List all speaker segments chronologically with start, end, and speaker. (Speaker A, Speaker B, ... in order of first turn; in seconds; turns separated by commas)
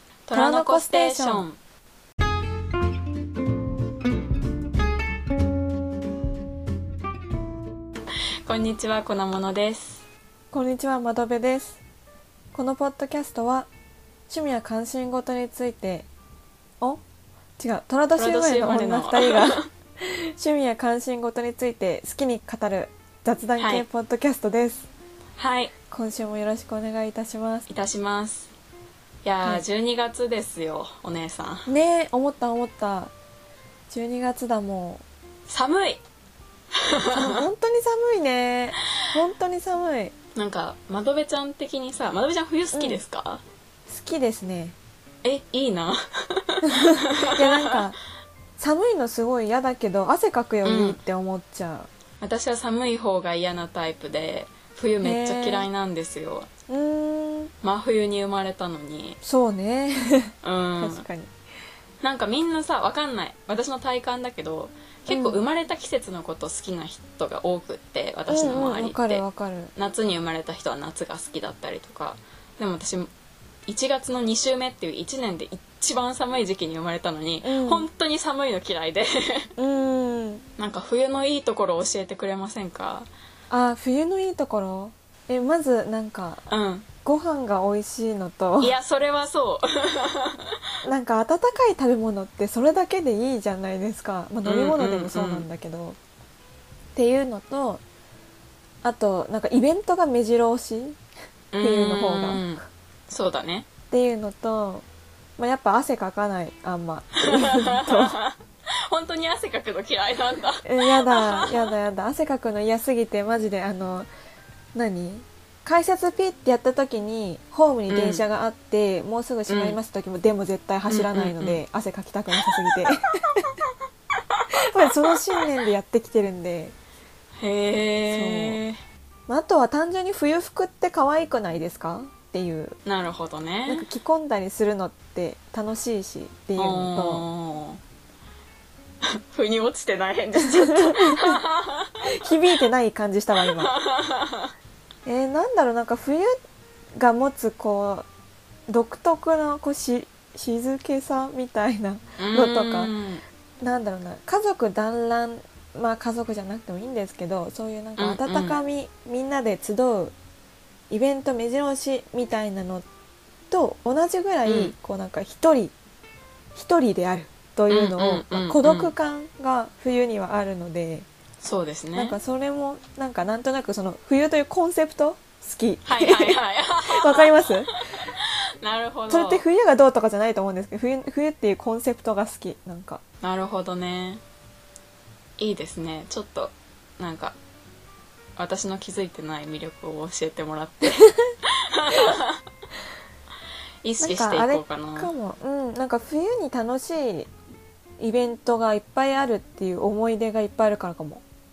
Speaker A: 0.3-1.6, Speaker B: 0.3-1.5, Speaker A: 8.4-10.0, Speaker B: 10.5-11.8, Speaker B: 12.5-13.7, Speaker B: 14.3-16.1, Speaker B: 17.6-24.9, Speaker A: 18.1-19.6, Speaker A: 23.6-23.8, Speaker A: 25.4-25.7, Speaker B: 25.9-27.6, Speaker A: 27.7-28.5, Speaker A: 29.2-31.7, Speaker B: 31.6-33.1, Speaker B: 33.9-35.0, Speaker A: 35.5-36.0, Speaker A: 36.7-37.4, Speaker B: 37.1-40.1, Speaker A: 40.3-43.4, Speaker B: 42.7-43.0, Speaker B: 43.9-44.8, Speaker A: 45.2-47.7, Speaker B: 46.8-48.0, Speaker B: 48.6-51.9, Speaker A: 50.6-51.0, Speaker A: 52.2-56.5, Speaker B: 55.0-55.6, Speaker B: 56.7-57.5, Speaker A: 57.6-59.2, Speaker B: 59.2-61.3, Speaker A: 60.4-61.0, Speaker A: 62.0-69.2, Speaker B: 65.1-65.4, Speaker B: 68.3-69.7, Speaker A: 69.7-73.1, Speaker A: 73.7-79.5, Speaker B: 77.4-77.8, Speaker B: 79.6-80.4, Speaker A: 80.6-83.1, Speaker B: 83.5-86.4, Speaker A: 86.5-86.9, Speaker B: 87.0-88.8, Speaker A: 88.6-90.5, Speaker B: 90.8-96.0, Speaker A: 94.5-95.5, Speaker B: 96.9-97.8, Speaker B: 98.8-101.0, Speaker A: 101.5-103.7, Speaker B: 101.6-102.4, Speaker B: 103.9-104.8, Speaker B: 105.4-108.2, Speaker A: 107.4-108.4, Speaker A: 108.9-111.6, Speaker B: 110.6-114.1, Speaker B: 114.7-123.5, Speaker A: 117.9-118.2, Speaker A: 119.5-119.8, Speaker A: 120.9-121.6, Speaker B: 124.5-126.7, Speaker A: 127.4-128.8, Speaker B: 128.1-128.6, Speaker B: 129.3-132.8, Speaker A: 132.8-133.8, Speaker B: 133.7-137.2, Speaker A: 136.6-137.8, Speaker A: 139.0-142.0, Speaker B: 140.3-141.4, Speaker B: 142.0-143.7, Speaker A: 143.6-144.5, Speaker B: 145.1-146.3, Speaker B: 146.9-148.1, Speaker B: 148.7-152.9, Speaker A: 152.2-153.2, Speaker B: 153.6-160.1, Speaker A: 158.0-158.6, Speaker B: 160.9-162.8, Speaker B: 163.5-165.7, Speaker A: 164.4-164.7, Speaker B: 166.6-171.1, Speaker A: 167.7-168.9, Speaker A: 171.4-172.2, Speaker B: 171.9-177.7, Speaker A: 175.8-177.5, Speaker A: 178.6-179.4, Speaker B: 179.1-183.0, Speaker A: 183.2-184.2, Speaker A: 185.4-187.3, Speaker A: 188.4-191.0, Speaker A: 191.6-192.4, Speaker A: 193.8-195.1, Speaker B: 194.0-197.3, Speaker B: 198.0-201.2